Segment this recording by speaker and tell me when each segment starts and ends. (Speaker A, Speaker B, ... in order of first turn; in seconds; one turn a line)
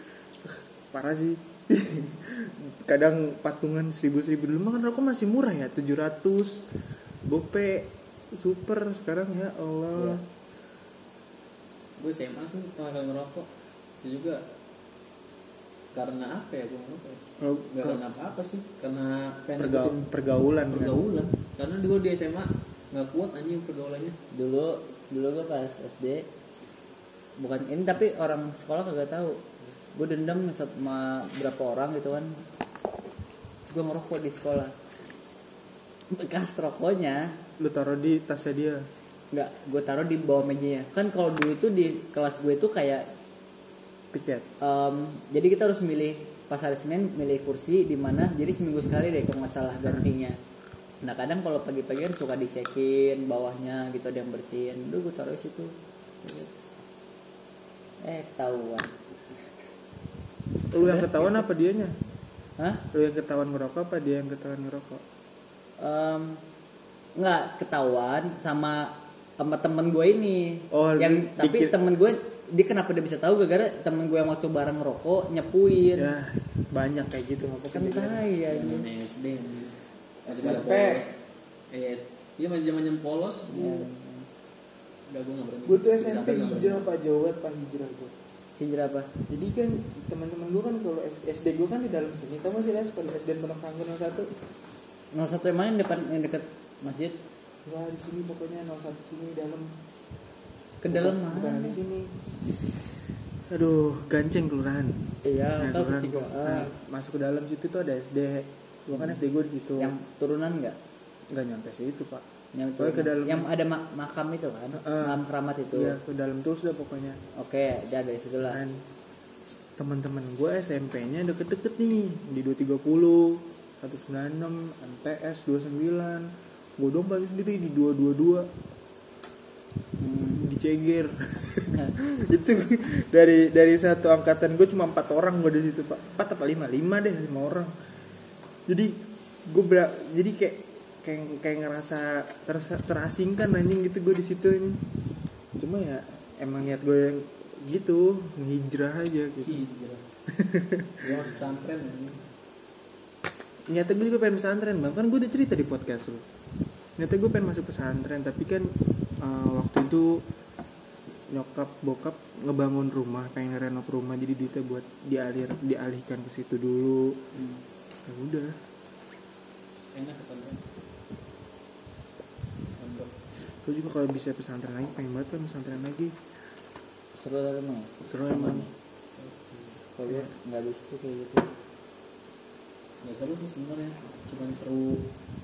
Speaker A: 0.4-6.7
Speaker A: 7.2-10.2
Speaker B: 9.9-10.2
Speaker C: 12.0-13.5
Speaker C: 14.0-14.4
Speaker C: 15.9-20.1
Speaker A: 17.4-18.0
Speaker A: 19.6-21.0
Speaker C: 20.7-24.2
Speaker B: 24.3-26.3
Speaker B: 27.4-29.4
Speaker B: 29.9-32.4
Speaker B: 33.6-34.7
Speaker B: 36.1-37.4
Speaker A: 37.6-38.9
Speaker B: 39.3-43.1
Speaker A: 44.1-44.5
Speaker B: 44.6-50.4
Speaker B: 51.0-56.5
Speaker B: 58.0-58.9
Speaker A: 60.7-61.9
Speaker B: 60.7-61.4
Speaker A: 62.9-65.0
Speaker B: 65.8-66.4
Speaker B: 67.2-76.1
Speaker A: 70.7-71.7
Speaker A: 75.9-78.2
Speaker B: 77.7-78.9
Speaker C: 78.5-81.1
Speaker A: 80.2-81.0
Speaker C: 81.7-83.8
Speaker B: 83.5-84.3
Speaker C: 85.1-86.9
Speaker A: 85.6-88.1
Speaker B: 88.6-89.1
Speaker A: 89.3-94.3
Speaker B: 95.1-97.2
Speaker A: 97.6-99.7
Speaker B: 100.8-101.8
Speaker A: 100.9-102.1
Speaker A: 103.5-105.0
Speaker B: 105.2-106.7
Speaker A: 105.6-109.9
Speaker B: 109.8-110.8
Speaker A: 111.3-112.2
Speaker B: 112.5-116.0
Speaker A: 112.8-113.5
Speaker A: 114.8-117.2
Speaker B: 117.3-118.6
Speaker A: 118.4-118.8
Speaker A: 119.8-128.5
Speaker B: 130.0-130.4
Speaker A: 130.3-137.7
Speaker A: 138.7-144.8
Speaker A: 145.6-149.6
Speaker C: 149.4-150.0
Speaker A: 150.3-151.1
Speaker C: 151.0-152.2
Speaker A: 153.7-156.2
Speaker A: 157.0-160.2
Speaker A: 161.3-167.2
Speaker A: 168.0-168.6
Speaker C: 169.9-170.6
Speaker C: 172.8-173.2
Speaker A: 173.6-176.1
Speaker B: 177.1-178.7
Speaker A: 178.1-178.7
Speaker C: 179.2-179.8
Speaker B: 179.9-181.5
Speaker C: 183.0-185.1